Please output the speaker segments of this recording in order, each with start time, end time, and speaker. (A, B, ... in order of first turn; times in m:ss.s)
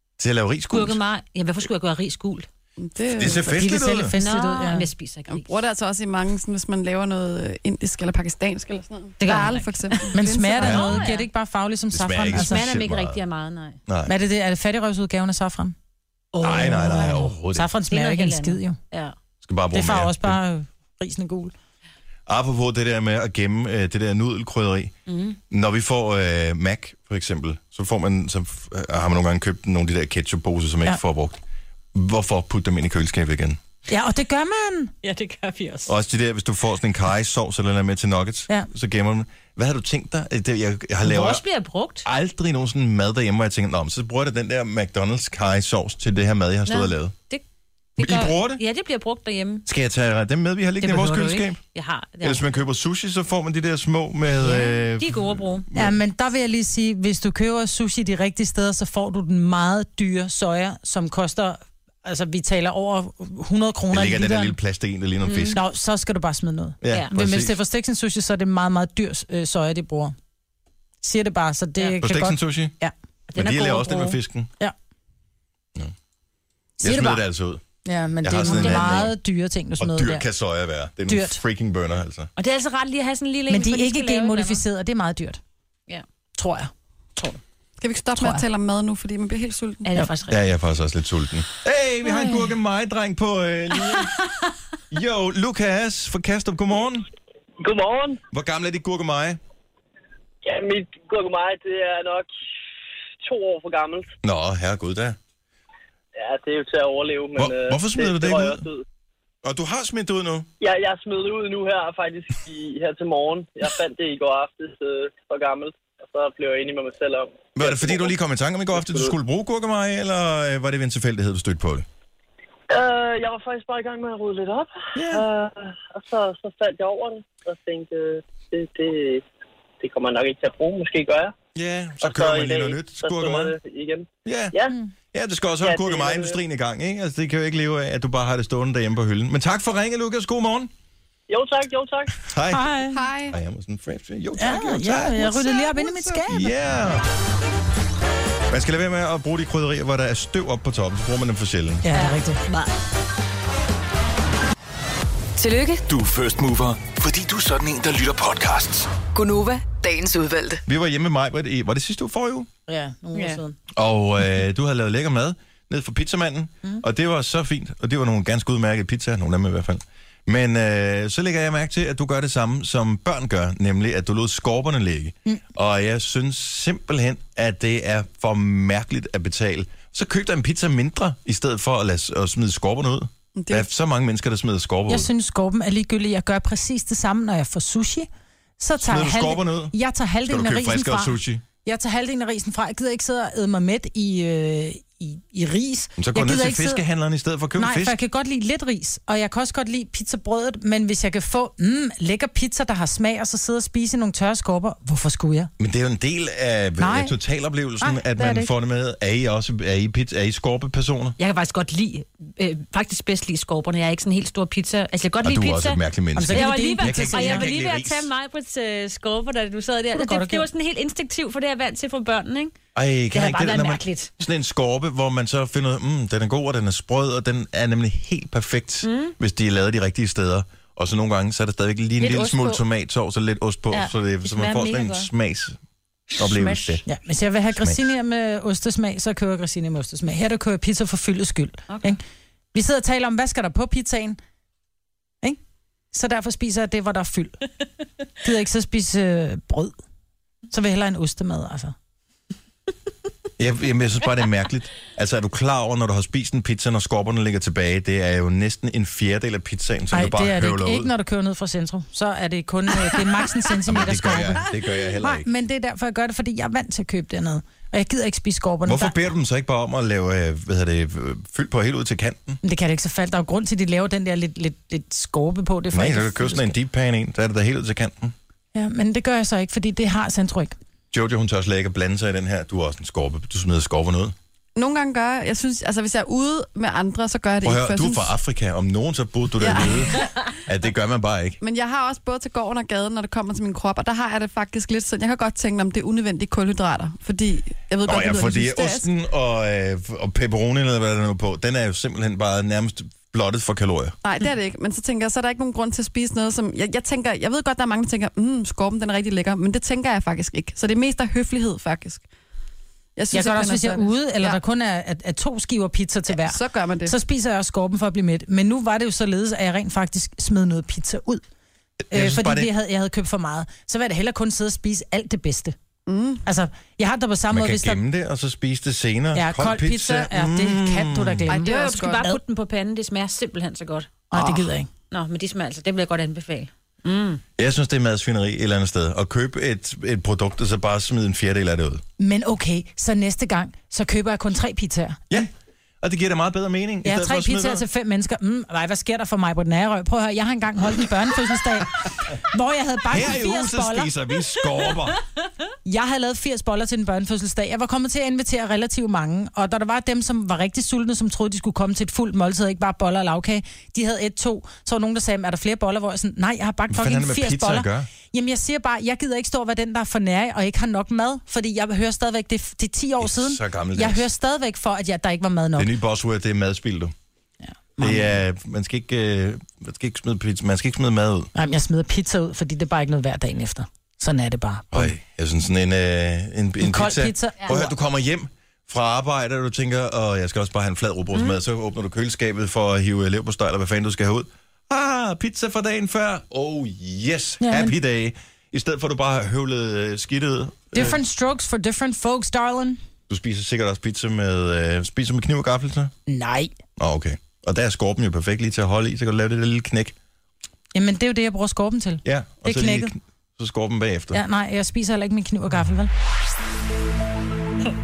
0:00.2-0:01.0 A
0:00.7-0:02.4 B
0:02.8-0:03.6 C
0:03.2-0:04.1 A
0:03.6-0:04.9 D
0:04.2-0:05.5 B
0:05.3-0:10.8 C
0:09.2-0:11.3 B
0:10.1-0:12.6 D
0:10.6-0:11.0 A
0:11.9-0:13.2 A
0:12.3-0:13.8 B
0:13.9-0:14.1 A
0:14.0-0:15.7 D
0:16.3-0:17.2 B
0:16.4-0:17.7 A
0:16.5-0:18.8 D
0:17.9-0:19.1 B
0:19.4-0:20.4 A
0:19.7-0:21.5 D
0:22.3-0:25.0 A
0:25.1-0:25.4 B
0:25.5-0:31.4 A
0:31.9-0:33.6 A
0:33.9-0:35.8 D
0:35.9-0:41.4 A
0:41.0-0:42.0 B
0:42.0-0:47.1 A
0:46.7-0:47.4 B
0:48.0-0:49.6 B
0:48.0-0:48.6 A
0:49.7-0:51.6 A
0:50.8-0:52.6 B
0:52.2-0:56.0 A
0:54.4-0:55.7 B
0:55.7-1:04.6 D
1:03.9-1:05.6 A
1:05.2-1:05.6 B
1:05.5-1:10.1 D
1:06.8-1:07.6 A
1:11.0-1:12.9 D
1:12.0-1:12.7 A
1:13.3-1:14.2 B
1:13.3-1:14.5 A
1:16.8-1:17.2 D
1:16.8-1:17.6 A
1:17.8-1:20.3 D
1:18.2-1:19.1 A
1:18.4-1:18.9 B
1:19.8-1:22.3 A
1:21.1-1:21.4 D
1:22.4-1:24.6 B
1:23.5-1:25.4 D
1:26.4-1:26.7 D
1:27.8-1:29.8 C
1:28.2-1:28.4 D
1:29.8-1:30.4 B
1:30.3-1:34.2 A
1:34.9-1:37.0 A
1:37.6-1:38.2 E
1:38.3-1:39.4 A
1:40.4-1:42.3 E
1:43.2-1:44.1 E
1:44.2-1:45.2 A
1:46.1-1:48.8 E
1:47.4-1:48.6 A
1:49.4-1:50.5 A
1:50.6-1:58.1 E
1:57.6-2:01.9 A
1:58.7-1:59.1 E
2:02.7-2:09.2 E
2:05.0-2:05.2 A
2:09.8-2:11.3 E
2:11.6-2:13.5 A
2:12.0-2:14.7 E
2:14.2-2:14.6 A
2:15.1-2:20.7 A
2:15.6-2:16.4 E
2:21.3-2:22.2 E
2:22.2-2:22.7 A
2:22.5-2:23.0 D
2:22.9-2:23.4 C
2:23.3-2:25.6 A
2:24.4-2:26.5 D
2:25.2-2:26.2 C
2:26.3-2:27.0 A
2:28.5-2:31.8 A
2:31.8-2:32.4 D
2:31.9-2:32.7 B
2:35.4-2:35.8 F
2:35.9-2:39.0 G
2:39.0-2:40.6 F
2:40.7-2:42.5 A
2:42.7-2:43.6 D
2:43.1-2:43.4 B
2:43.7-3:05.1 A
3:03.4-3:03.7 C
3:04.9-3:16.8 D
3:08.8-3:09.7 A
3:10.3-3:11.4 A
3:16.0-3:18.0 A
3:17.6-3:25.5 D
3:25.6-3:31.2 A
3:26.8-3:27.1 D
3:27.8-3:28.5 D
3:31.2-3:42.5 B
3:35.2-3:38.1 A
3:36.2-3:37.5 D
3:39.9-3:40.4 D
3:42.7-3:55.6 A
3:43.1-3:44.1 B
3:48.8-3:49.1 B
3:52.0-3:52.6 B
3:53.7-3:55.1 B
3:56.1-3:56.8 B
3:56.2-3:56.8 A
3:56.9-4:02.0 D
3:57.5-3:57.8 A
4:01.7-4:02.0 B
4:02.5-4:04.2 D
4:05.9-4:07.4 D
4:08.2-4:09.8 D
4:10.5-4:11.7 D
4:13.4-4:20.9 A
4:19.9-4:29.0 D
4:23.7-4:25.3 A
4:28.6-4:32.4 A
4:32.4-4:36.6 D
4:35.7-4:38.1 A
4:38.5-4:40.6 D
4:40.9-4:44.1 A
4:44.6-4:48.1 C
4:47.4-4:51.4 A
4:49.4-4:50.1 C
4:51.4-4:58.9 C
4:57.8-5:04.0 A
5:04.0-5:12.0 C
5:13.0-5:14.4 C
5:13.1-5:21.2 D
5:16.1-5:16.9 C
5:21.8-5:22.5 A
5:21.9-5:25.6 D
5:25.9-5:26.2 C
5:26.2-5:27.8 D
5:27.3-5:31.3 A
5:29.1-5:32.2 D
5:31.3-5:32.1 C
5:31.4-5:33.9 B
5:34.1-5:34.7 D
5:34.1-5:34.5 C
5:34.9-5:37.2 B
5:37.4-5:41.8 A
5:42.0-5:45.2 D
5:45.8-5:47.6 A
5:46.8-5:53.9 D
5:52.9-5:55.0 A
5:55.6-6:15.7 D
6:06.7-6:07.9 A
6:13.0-6:14.1 A
6:15.6-6:16.9 A
6:17.8-6:18.2 D
6:17.8-6:21.3 A
6:21.3-6:24.9 D
6:24.7-6:41.0 A
6:26.6-6:27.7 D
6:37.4-6:37.8 D
6:40.7-6:42.8 D
6:43.1-6:45.9 A
6:46.1-6:46.5 D
6:46.8-6:50.0 A
6:50.7-6:52.9 D
6:52.0-6:54.2 A
6:54.1-6:55.9 D